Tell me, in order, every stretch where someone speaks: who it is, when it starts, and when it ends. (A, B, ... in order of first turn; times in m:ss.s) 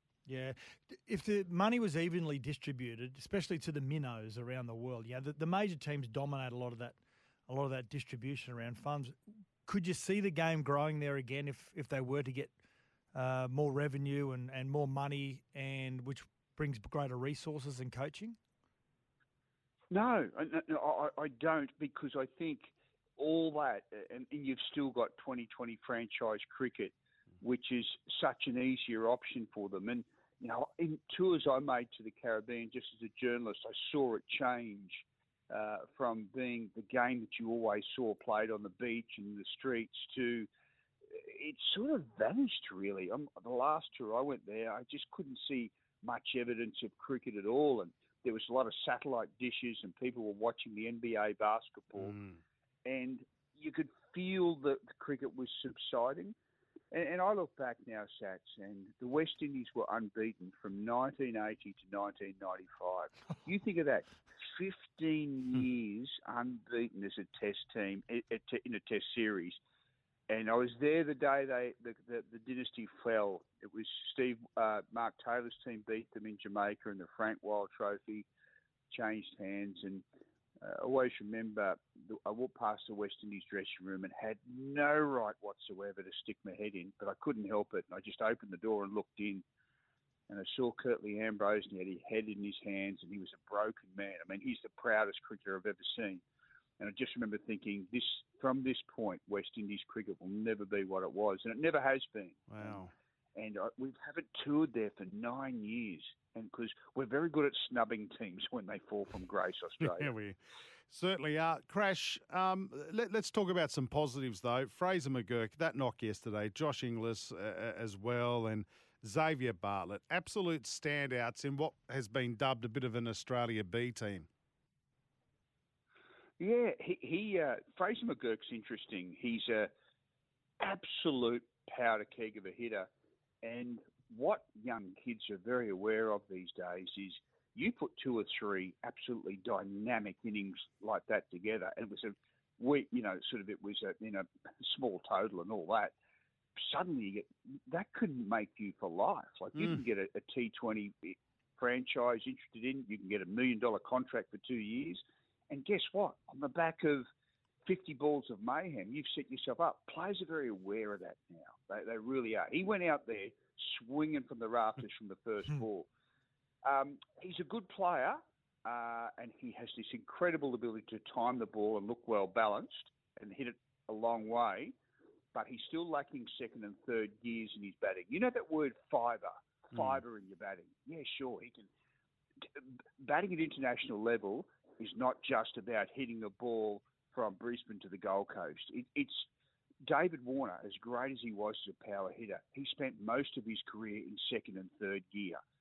0:00.3-0:07.0 A
0:07.5-0:12.5 A
0:13.1-0:18.4 A
0:19.9-0:40.5 B
0:41.1-0:52.2 B
0:52.0-0:52.4 C
0:52.8-0:56.3 B
0:56.9-1:09.6 B
1:10.3-1:18.2 B
1:18.9-1:20.0 B
1:20.6-1:29.4 B
1:30.3-1:36.2 B
1:36.8-1:42.8 B
1:42.5-1:42.9 C
1:43.3-1:50.1 B
1:49.8-2:04.3 C
2:06.4-2:09.7 B
2:10.6-2:12.9 B
2:13.4-2:25.9 B
2:26.6-2:37.1 B
2:29.6-2:29.8 C
2:37.6-2:45.9 B
2:46.6-2:54.7 B
2:55.3-3:01.7 B
2:59.7-3:00.0 C
3:02.6-3:09.3 B
3:09.8-3:15.4 B